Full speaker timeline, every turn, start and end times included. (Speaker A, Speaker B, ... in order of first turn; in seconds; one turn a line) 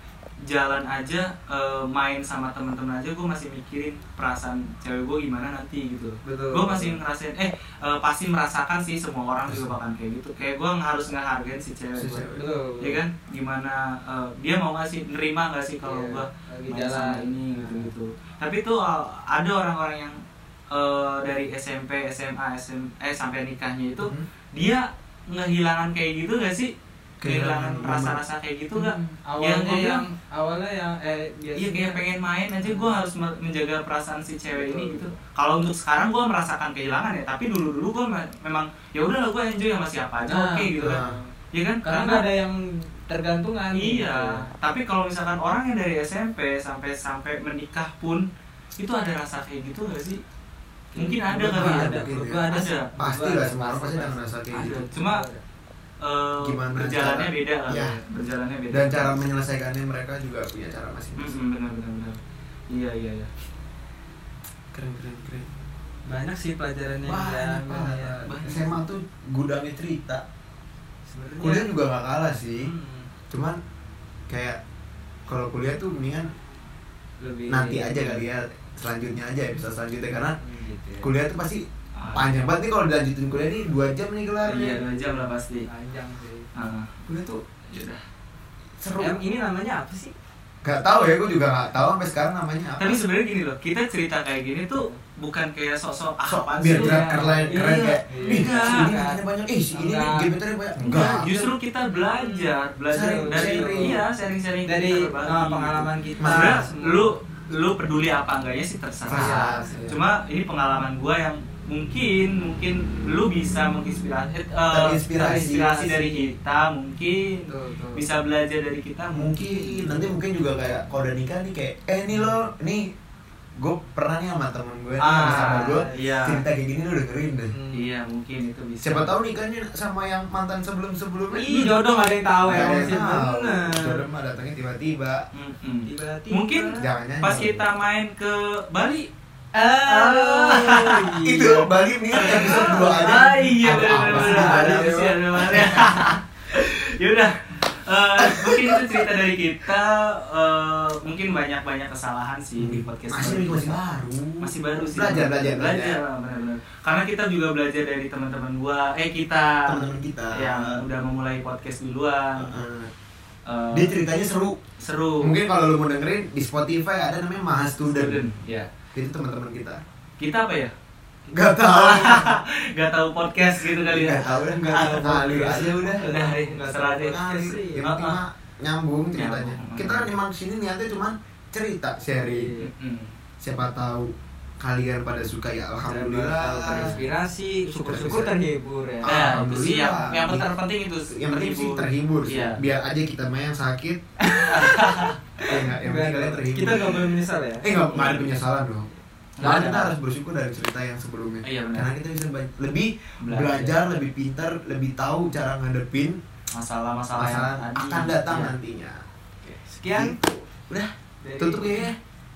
Speaker A: 0.5-20.1
Speaker B: 6.2-7.0
Speaker C: 9.4-9.7
Speaker C: 11.9-12.5
Speaker B: 12.4-13.0
Speaker B: 15.8-17.9
Speaker A: 20.7-26.7
Speaker C: 24.0-24.3
Speaker C: 27.2-28.2
Speaker A: 27.2-30.0
Speaker B: 28.7-32.0
Speaker A: 31.6-42.2
Speaker B: 32.6-33.0
Speaker B: 34.5-35.1
Speaker B: 40.2-41.3
Speaker C: 40.8-41.2
Speaker B: 41.8-44.5
Speaker A: 43.7-50.2
Speaker A: 50.9-52.9
Speaker B: 50.9-55.4
Speaker C: 51.3-52.5
Speaker C: 53.0-54.9
Speaker A: 54.5-55.2
Speaker A: 56.0-59.1
Speaker C: 56.4-58.0
Speaker C: 58.7-61.4
Speaker A: 61.2-62.2
Speaker A: 62.7-63.3
Speaker C: 64.7-65.5
Speaker B: 66.1-68.2
Speaker C: 67.0-70.2
Speaker A: 68.2-68.8
Speaker B: 71.1-71.7
Speaker C: 71.4-72.7
Speaker B: 72.5-73.1
Speaker C: 73.3-73.6
Speaker C: 74.3-74.6
Speaker C: 75.3-76.3
Speaker B: 77.2-78.2
Speaker C: 77.5-80.4
Speaker B: 80.4-81.1
Speaker C: 81.0-84.8
Speaker A: 82.0-82.5
Speaker A: 84.4-85.7
Speaker B: 85.5-86.5
Speaker A: 86.5-86.9
Speaker C: 87.1-87.4
Speaker A: 87.7-88.0
Speaker C: 88.8-89.2
Speaker B: 89.0-90.2
Speaker C: 90.6-93.0
Speaker A: 92.8-98.9
Speaker B: 94.7-95.0
Speaker C: 96.2-101.2
Speaker B: 96.7-100.3
Speaker A: 100.8-119.5
Speaker B: 100.9-101.5
Speaker B: 102.0-104.0
Speaker C: 102.9-104.0
Speaker B: 104.6-107.1
Speaker C: 106.2-106.6
Speaker C: 109.1-110.0
Speaker B: 109.1-110.0
Speaker C: 114.7-116.0
Speaker B: 115.1-116.3
Speaker B: 117.5-118.0
Speaker C: 119.1-122.9
Speaker B: 119.4-120.0
Speaker C: 123.6-127.5
Speaker A: 125.0-126.4
Speaker B: 125.2-126.1
Speaker B: 127.5-127.9
Speaker A: 127.7-129.1
Speaker C: 128.8-131.8
Speaker B: 131.3-134.0
Speaker C: 132.4-135.3
Speaker A: 132.5-132.9
Speaker A: 135.3-139.1
Speaker B: 135.8-136.8
Speaker C: 136.8-137.7
Speaker B: 139.5-144.7
Speaker A: 139.8-141.2
Speaker C: 141.2-146.0
Speaker A: 142.1-153.8
Speaker C: 148.2-149.1
Speaker C: 152.6-156.0
Speaker A: 154.4-162.5
Speaker C: 159.6-160.8
Speaker C: 162.3-162.9
Speaker A: 163.4-164.0
Speaker C: 163.7-164.6
Speaker A: 164.8-165.3
Speaker C: 165.2-168.2
Speaker A: 167.8-168.7
Speaker C: 168.9-169.8
Speaker A: 170.2-170.7
Speaker C: 171.3-172.4
Speaker A: 171.6-177.2
Speaker C: 173.6-176.0
Speaker B: 174.5-177.9
Speaker C: 177.1-182.5
Speaker A: 177.8-178.2
Speaker A: 179.1-180.1
Speaker B: 182.2-182.7
Speaker A: 182.6-183.1
Speaker C: 183.4-187.0
Speaker B: 185.8-189.2
Speaker C: 187.7-188.3
Speaker C: 189.0-190.5
Speaker A: 189.1-192.6
Speaker C: 191.1-194.0
Speaker B: 194.2-194.8
Speaker A: 194.5-195.2
Speaker B: 195.4-197.8
Speaker C: 195.4-197.1
Speaker C: 197.6-206.2
Speaker A: 197.9-198.3
Speaker A: 199.4-199.9
Speaker A: 201.4-201.9
Speaker A: 203.2-203.8
Speaker A: 206.5-208.5
Speaker C: 207.1-209.0
Speaker B: 209.4-210.2
Speaker C: 209.9-212.0
Speaker B: 211.2-211.9